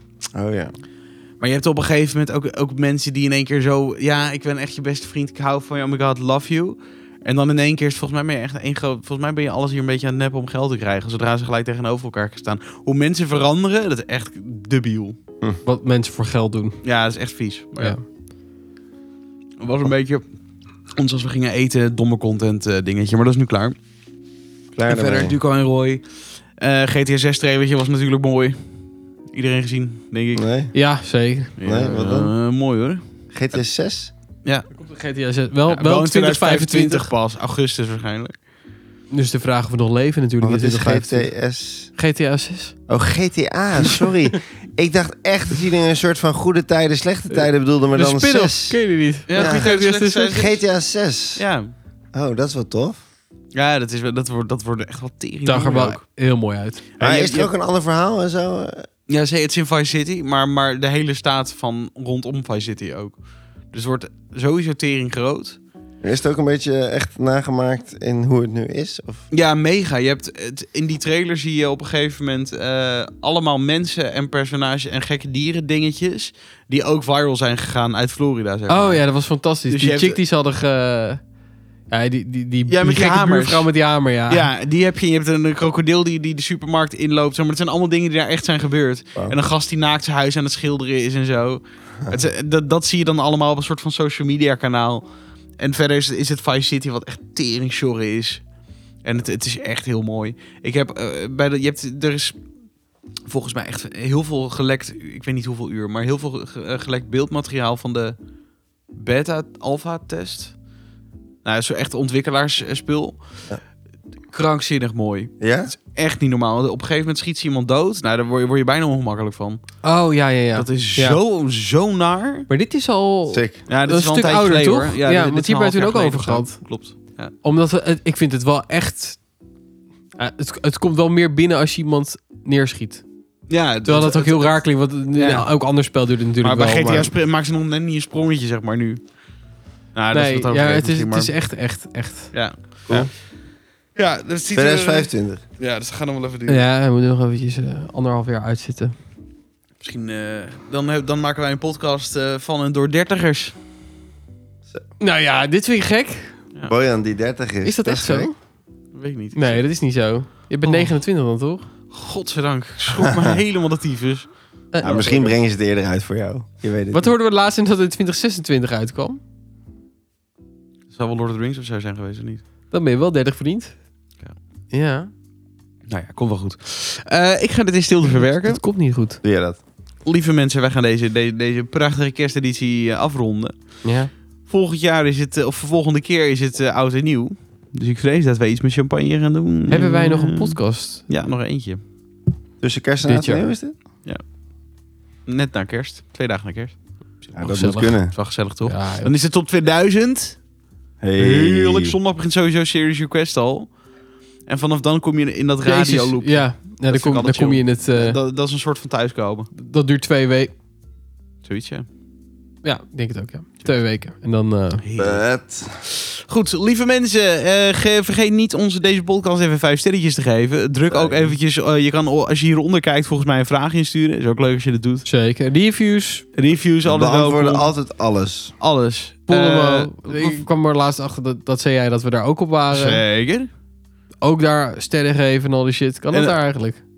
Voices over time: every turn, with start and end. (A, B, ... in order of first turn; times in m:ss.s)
0:00.3-0:00.7 A
0:01.4-0:15.2 B
0:15.6-0:16.8 C
0:16.8-0:18.0 B
0:19.6-0:20.2 B
0:20.9-0:23.8 B
0:24.7-0:25.4 A
0:24.8-0:28.8 B
0:29.3-0:30.4 B
0:30.3-0:30.7 A
0:30.7-0:31.9 C
0:31.6-0:33.0 B
0:31.6-0:32.3 A
0:33.3-0:34.1 A
0:34.8-0:37.1 C
0:35.7-0:38.3 B
0:39.1-0:41.3 C
0:40.4-0:41.9 A
0:42.0-0:42.7 C
0:42.9-0:48.8 A
0:47.3-0:50.4 C
0:49.3-0:50.6 B
0:49.4-0:49.7 A
0:50.3-0:51.4 A
0:51.4-0:51.7 B
0:52.1-0:53.0 A
0:53.5-0:56.0 B
0:55.4-0:56.9 C
0:57.0-0:57.5 B
0:57.0-0:58.9 A
0:59.1-1:03.2 B
1:03.7-1:05.6 B
1:06.0-1:09.2 A
1:09.3-1:19.0 B
1:18.7-1:21.2 C
1:19.7-1:20.2 B
1:21.9-1:24.5 C
1:22.7-1:23.7 B
1:24.3-1:35.0 B
1:35.6-1:38.4 B
1:39.0-1:42.4 B
1:43.3-1:48.2 B
1:48.9-1:50.5 B
1:51.4-1:53.2 B
1:54.3-1:59.6 B
1:55.4-1:55.7 A
1:59.8-2:01.2 C
2:00.5-2:02.5 B
2:02.5-2:06.6 C
2:03.3-2:03.6 A
2:03.7-2:07.3 B
2:07.4-2:09.2 C
2:10.2-2:13.0 C
2:13.5-2:15.5 B
2:13.8-2:17.1 C
2:16.4-2:19.0 B
2:16.8-2:17.1 A
2:19.9-2:21.3 B
2:20.1-2:22.3 C
2:22.3-2:23.1 B
2:23.9-2:26.6 B
2:24.5-2:25.4 A
2:26.5-2:28.9 C
2:29.8-2:33.6 B
2:35.0-2:36.4 C
2:36.7-2:38.3 A
2:37.6-2:38.3 C
2:38.9-2:39.6 B
2:39.3-2:41.7 C
2:40.6-2:41.0 B
2:41.9-2:45.3 B
2:42.9-2:43.4 A
2:44.7-2:45.2 C
2:44.8-2:47.1 A
2:46.9-2:49.2 C
2:50.9-2:52.4 B
2:52.7-2:53.8 C
2:54.7-2:55.1 C
2:55.9-2:58.6 B
2:58.1-2:59.2 C
2:59.2-2:59.6 A
3:00.0-3:03.6 B
3:03.8-3:04.1 C
3:04.4-3:11.8 B
3:09.7-3:11.0 C
3:12.6-3:13.7 A
3:13.0-3:13.5 C
3:15.3-3:16.7 B
3:17.3-3:18.1 A
3:17.4-3:19.1 C
3:18.1-3:20.4 B
3:21.0-3:22.0 A
3:21.2-3:23.8 B
3:24.4-3:29.5 B
3:25.6-3:28.2 C
3:29.6-3:30.5 C
3:31.4-3:31.8 B
3:32.6-3:34.8 C
3:34.8-3:35.2 B
3:35.0-3:35.8 A
3:35.8-3:45.0 B
3:40.9-3:41.3 A
3:45.0-3:46.2 C
3:46.4-3:47.7 B
3:46.8-3:48.5 A
3:48.6-3:50.4 B
3:49.3-3:53.0 C
3:52.7-3:53.5 B
3:54.2-3:56.8 C
3:56.1-3:56.4 B